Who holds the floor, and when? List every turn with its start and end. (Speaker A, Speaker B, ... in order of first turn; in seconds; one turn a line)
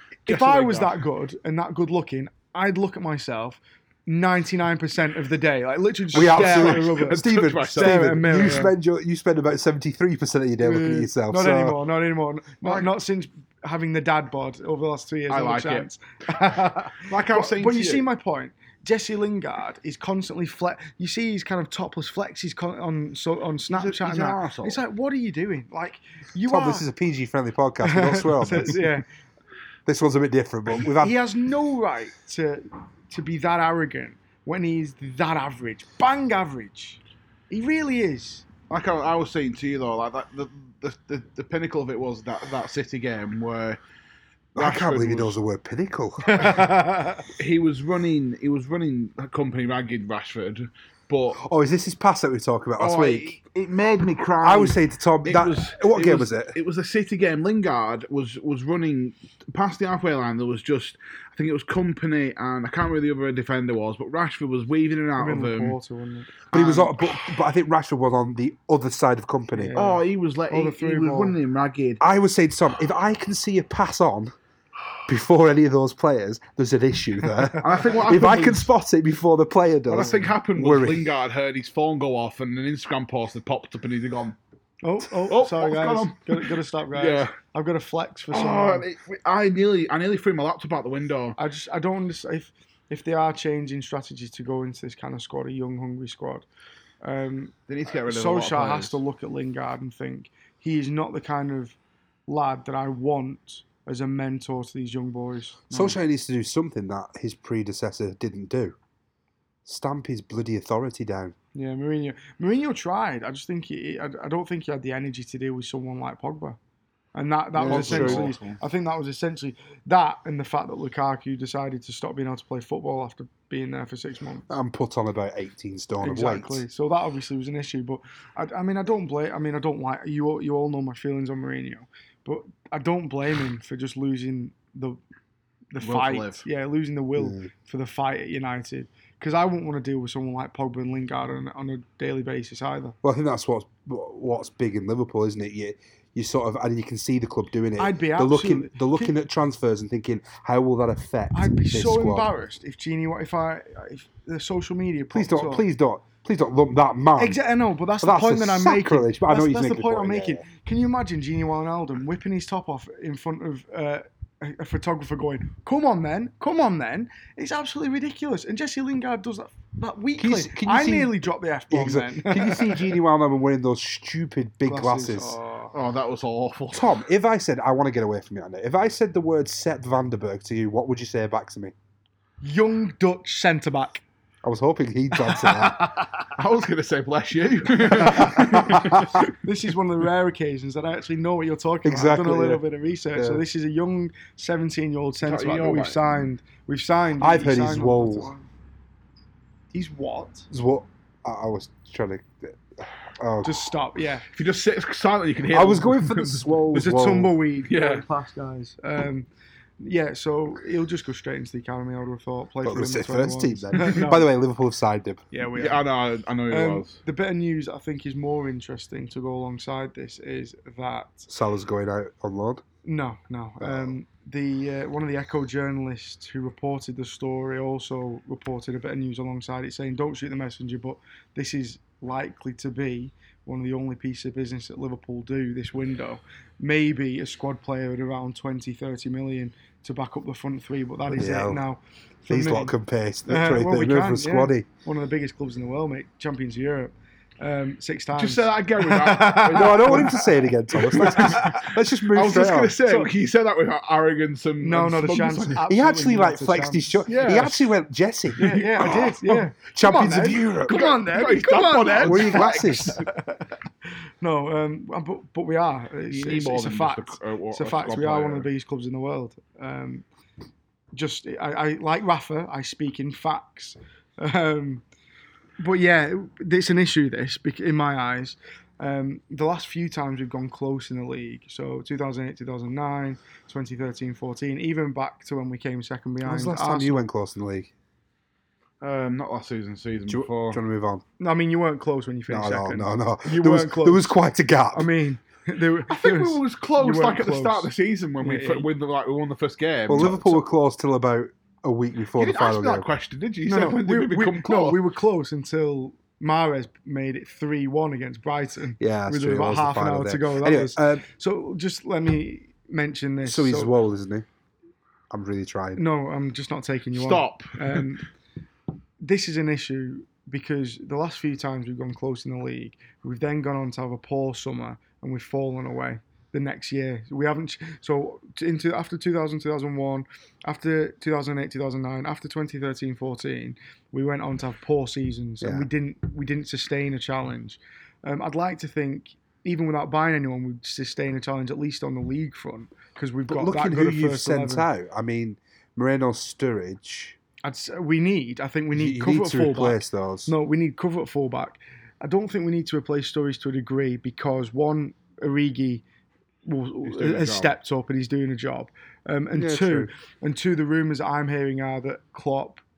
Speaker A: 0.3-1.0
Speaker B: 0.3-8.7
Speaker A: 6.1-8.6
Speaker C: 6.1-11.8
Speaker B: 10.6-26.9
Speaker A: 15.3-18.1
Speaker A: 23.7-24.8
Speaker C: 26.5-28.8
Speaker B: 27.8-29.0
Speaker C: 29.9-31.1
Speaker B: 31.0-38.5
Speaker A: 38.7-43.8
Speaker A: 44.5-45.4
Speaker C: 44.6-46.7
Speaker B: 46.2-47.2
Speaker A: 47.3-51.4
Speaker C: 51.4-53.4
Speaker A: 52.8-65.8
Speaker C: 54.4-56.5
Speaker B: 65.2-66.3
Speaker A: 66.5-67.3
Speaker C: 66.5-69.7
Speaker B: 69.5-71.4
Speaker A: 69.8-72.0
Speaker C: 72.0-74.3
Speaker C: 75.1-81.1
Speaker A: 77.6-78.7
Speaker A: 79.9-84.4
Speaker B: 84.8-88.8
Speaker A: 85.2-87.3
Speaker A: 88.3-91.4
Speaker B: 91.4-96.5
Speaker B: 97.0-97.5
Speaker A: 97.7-99.0
Speaker B: 98.0-101.8
Speaker B: 102.3-106.0
Speaker C: 105.7-108.8
Speaker C: 109.7-111.3
Speaker B: 111.5-116.6
Speaker B: 117.2-124.5
Speaker A: 117.5-118.6
Speaker C: 117.6-118.3
Speaker C: 124.5-126.6
Speaker B: 126.0-135.0
Speaker B: 135.7-142.9
Speaker A: 135.8-136.5
Speaker C: 137.2-137.5
Speaker C: 143.0-152.3
Speaker B: 147.8-149.1
Speaker B: 151.3-155.6
Speaker C: 155.1-157.4
Speaker B: 157.2-173.0
Speaker C: 158.0-160.4
Speaker C: 170.2-171.2
Speaker C: 171.7-175.4
Speaker B: 174.7-175.7
Speaker A: 175.7-176.9
Speaker C: 176.7-181.7
Speaker B: 182.4-184.0
Speaker C: 184.4-185.9
Speaker B: 185.4-186.0
Speaker A: 186.2-189.3
Speaker B: 187.9-198.5
Speaker C: 188.0-189.3
Speaker C: 191.8-192.6
Speaker C: 193.2-193.4
Speaker A: 195.2-196.2
Speaker C: 197.2-198.3
Speaker B: 199.7-200.5
Speaker C: 200.5-203.7
Speaker B: 203.4-204.3
Speaker A: 204.3-206.6
Speaker C: 205.5-207.3
Speaker B: 206.7-209.3
Speaker A: 207.7-208.0
Speaker B: 209.8-214.3
Speaker C: 212.6-215.3
Speaker B: 215.3-215.9
Speaker A: 215.6-217.0
Speaker B: 216.5-221.3
Speaker C: 221.3-222.6
Speaker B: 222.8-242.7
Speaker C: 223.6-223.9
Speaker C: 241.1-241.6
Speaker C: 242.3-244.7
Speaker B: 243.3-251.7
Speaker A: 248.2-255.6
Speaker C: 249.5-252.8
Speaker B: 252.8-253.1
Speaker B: 254.6-257.4
Speaker C: 255.7-260.9
Speaker A: 257.1-257.6
Speaker B: 258.4-263.5
Speaker A: 258.4-259.4
Speaker A: 260.1-263.0
Speaker C: 262.0-263.0
Speaker B: 264.2-270.1
Speaker A: 266.1-268.5
Speaker B: 270.9-274.8
Speaker B: 275.6-287.0
Speaker C: 286.2-287.7
Speaker A: 288.8-290.6
Speaker C: 290.1-291.0
Speaker B: 291.2-294.1
Speaker C: 292.3-294.9
Speaker B: 294.7-297.7
Speaker A: 295.9-300.2
Speaker B: 298.2-298.7
Speaker C: 299.9-302.9
Speaker B: 300.0-300.4
Speaker A: 302.2-304.8
Speaker B: 303.5-313.7
Speaker C: 308.8-311.1
Speaker C: 313.2-314.3
Speaker C: 315.1-315.8
Speaker B: 315.8-318.1
Speaker A: 316.9-317.9
Speaker B: 319.0-344.7
Speaker C: 335.4-335.7
Speaker C: 343.3-347.2
Speaker B: 347.4-355.8
Speaker C: 348.7-350.3
Speaker B: 356.4-362.6
Speaker A: 356.9-357.6
Speaker C: 359.4-359.9